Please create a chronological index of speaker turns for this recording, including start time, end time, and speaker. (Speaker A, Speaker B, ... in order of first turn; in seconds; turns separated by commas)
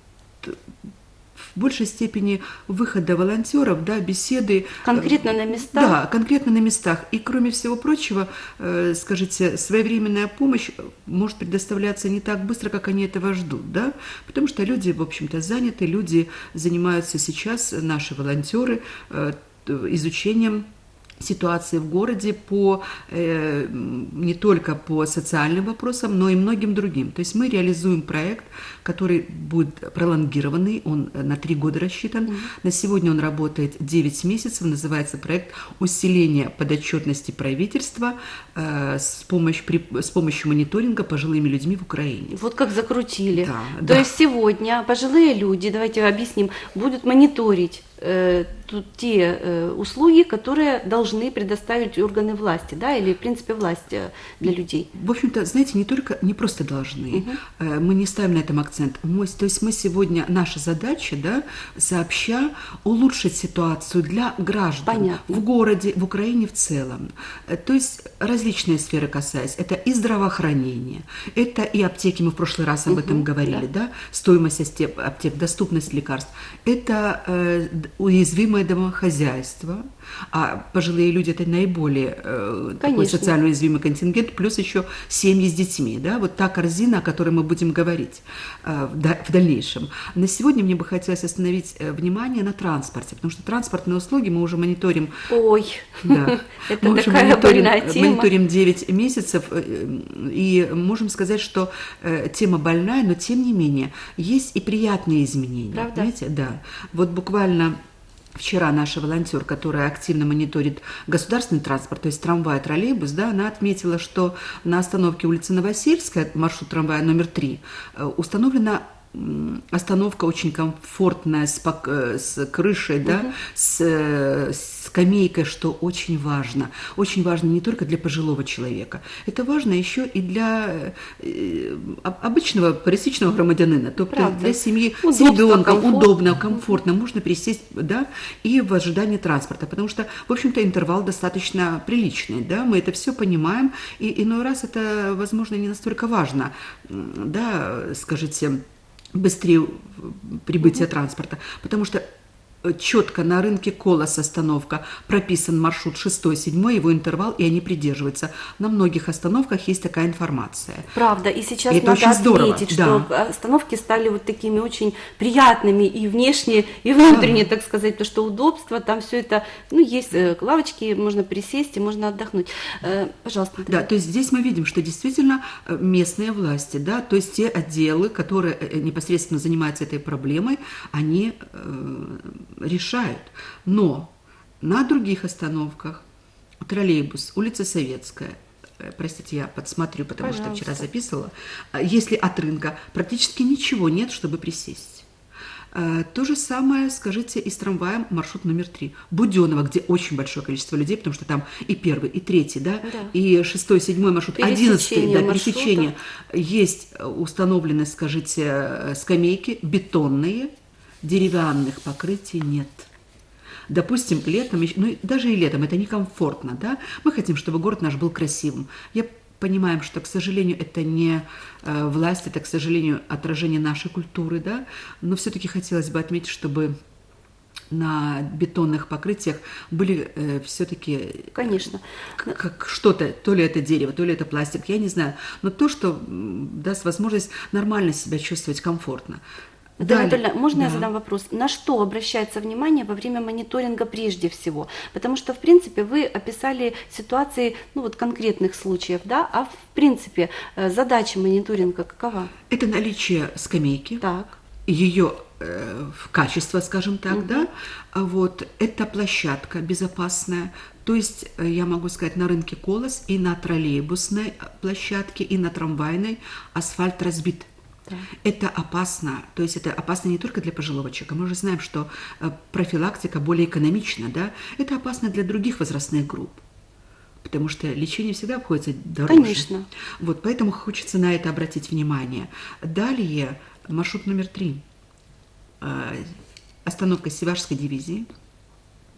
Speaker A: 1.5-20.6, Speaker B: 4.8-6.0, Speaker A: 21.2-42.4, Speaker B: 42.3-54.9, Speaker A: 43.3-44.1, Speaker A: 54.9-95.1, Speaker B: 57.1-57.4, Speaker B: 64.8-65.4, Speaker B: 72.9-73.6, Speaker B: 82.8-83.3, Speaker B: 95.3-98.3, Speaker A: 96.0-107.8, Speaker B: 105.7-106.1, Speaker A: 108.3-148.6, Speaker B: 123.1-123.3, Speaker B: 134.1-136.8, Speaker A: 149.1-152.0, Speaker A: 152.6-160.9, Speaker B: 160.9-173.8, Speaker A: 161.7-163.1, Speaker A: 167.1-167.4, Speaker A: 173.7-186.0, Speaker A: 186.6-195.1, Speaker B: 190.2-190.9, Speaker A: 195.7-210.5, Speaker B: 202.8-203.1, Speaker B: 204.4-205.9, Speaker A: 211.0-212.9, Speaker A: 213.7-226.7, Speaker A: 227.7-239.2, Speaker B: 231.3-232.3, Speaker A: 239.8-240.9, Speaker B: 239.8-252.3, Speaker A: 252.5-254.0, Speaker B: 254.0-254.4, Speaker A: 254.7-267.5, Speaker B: 257.1-257.5, Speaker A: 268.2-276.4, Speaker A: 277.2-284.6, Speaker B: 279.1-279.6, Speaker A: 285.6-288.1